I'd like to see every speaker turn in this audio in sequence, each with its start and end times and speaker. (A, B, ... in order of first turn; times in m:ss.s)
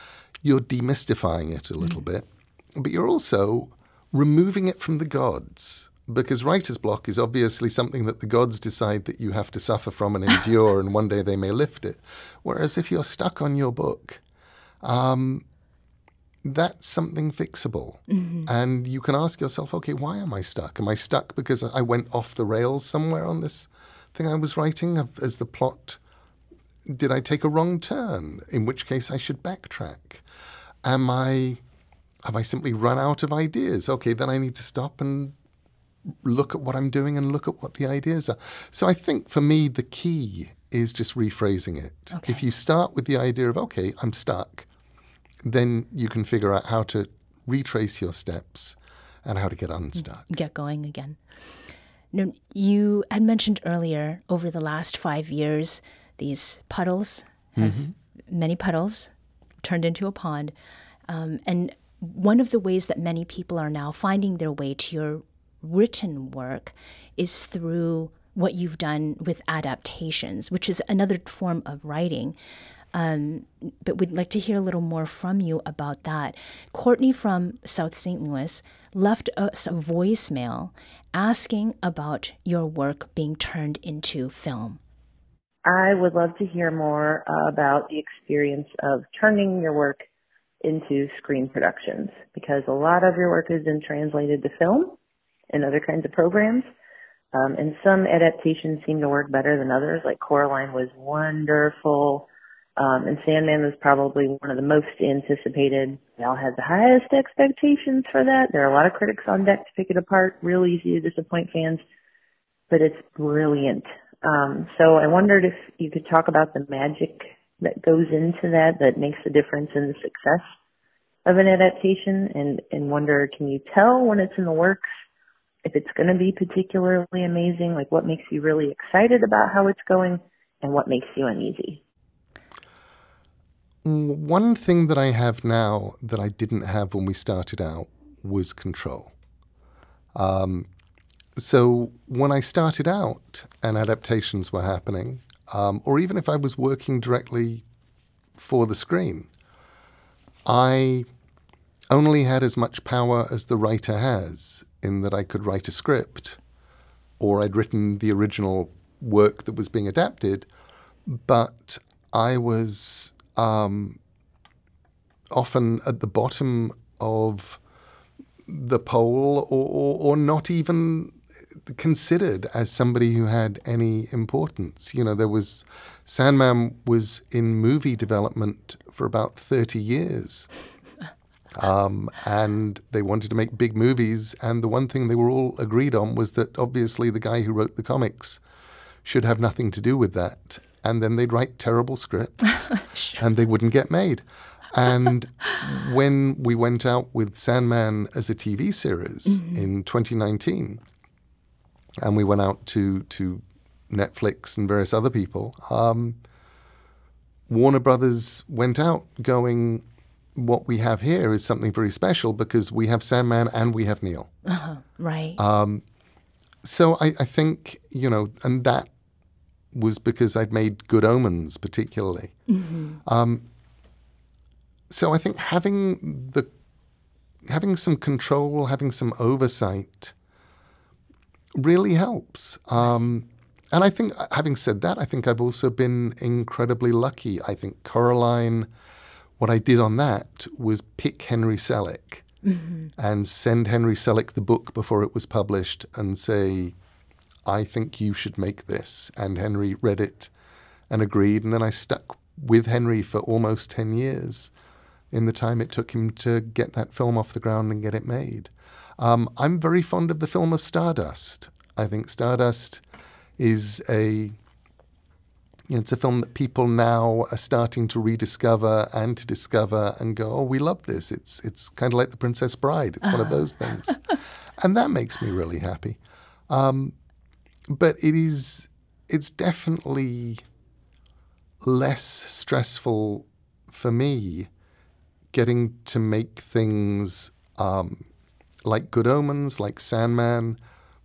0:00.4-0:14.2 A
0:14.8-0:15.4 A
0:16.4-0:26.0 A
0:18.1-0:18.5 B
0:26.9-0:30.2 A
0:30.8-0:31.6 A
0:32.2-0:35.3 A
0:36.2-0:44.7 A
0:42.1-0:42.4 B
0:45.4-0:50.3 A
0:50.0-0:51.2 B
0:52.1-1:00.5 B
0:57.6-0:57.9 A
1:01.1-1:12.3 B
1:12.9-1:24.8 B
1:25.6-1:30.0 C
1:30.6-1:35.0 C
1:35.5-1:36.7 C
1:37.3-1:42.3 C
1:42.8-1:51.8 C
1:52.7-2:00.4 C
2:01.2-2:04.8 C
2:05.6-2:11.8 C
2:13.8-2:19.1 A
2:20.1-2:20.7 A
2:21.4-2:27.6 A
2:28.4-2:29.3 A
2:30.4-2:31.1 A
2:31.9-2:36.4 A
2:37.2-2:40.5 A
2:41.0-2:44.0 A
2:45.3-2:47.6 A
2:48.4-3:00.5 A
3:01.5-3:08.4 A
3:09.0-3:20.8 A
3:19.3-3:19.7 B
3:22.0-3:26.2 A
3:27.5-3:34.3 A
3:34.4-3:35.4 B
3:35.4-3:35.8 A
3:36.6-3:38.9 A
3:39.7-3:42.3 A
3:42.5-3:43.0 B
3:43.0-3:43.4 A
3:44.9-3:46.5 A
3:47.4-3:50.1 A
3:51.5-3:58.7 A
3:59.4-4:02.2 A
4:02.4-4:02.9 B
4:03.0-4:06.7 A
4:07.4-4:10.3 A
4:10.9-4:14.5 A
4:15.1-4:22.8 A
4:23.4-4:24.4 A
4:25.7-4:36.9 A
4:37.7-4:40.4 A
4:41.6-4:44.5 A
4:45.3-4:48.1 A
4:48.6-4:50.6 A